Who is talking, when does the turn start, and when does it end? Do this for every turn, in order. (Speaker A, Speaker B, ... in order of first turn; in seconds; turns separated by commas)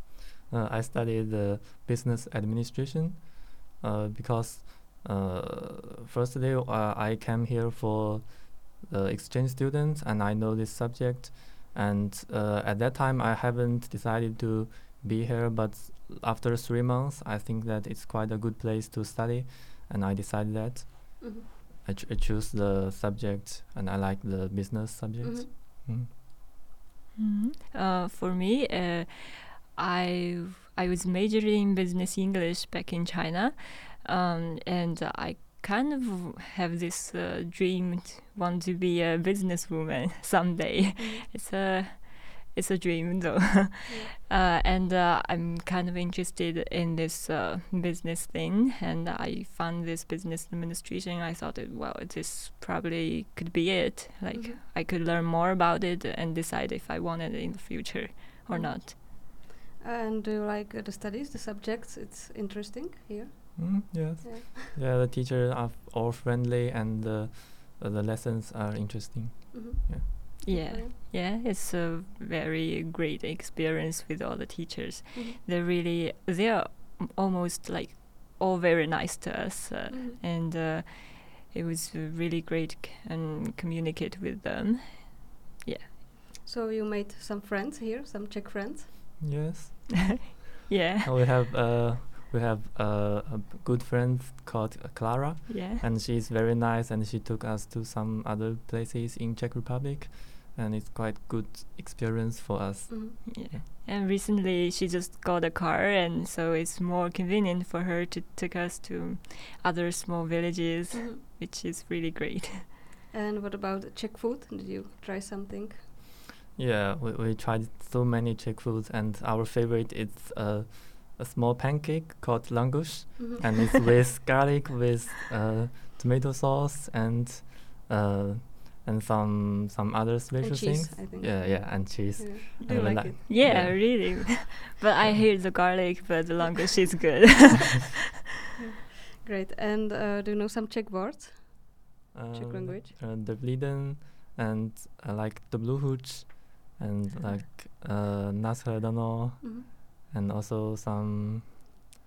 Speaker A: 0.5-26.1, Speaker B: 25.2-25.5, Speaker C: 27.2-59.0, Speaker B: 41.0-41.3, Speaker B: 43.9-44.1, Speaker B: 54.3-54.6, Speaker B: 58.5-64.7, Speaker A: 63.6-70.1, Speaker B: 69.5-70.9, Speaker C: 70.5-85.9, Speaker B: 79.9-80.2, Speaker B: 86.4-88.9, Speaker A: 89.2-90.3, Speaker C: 90.7-91.1, Speaker A: 91.0-103.6, Speaker C: 95.5-95.8, Speaker B: 102.9-103.2, Speaker C: 103.3-112.7, Speaker B: 110.9-111.2, Speaker B: 113.1-115.8, Speaker A: 116.6-134.4, Speaker B: 123.2-123.9, Speaker B: 130.4-133.2, Speaker C: 132.9-137.9, Speaker B: 138.6-142.9, Speaker A: 142.1-151.7, Speaker B: 149.4-149.7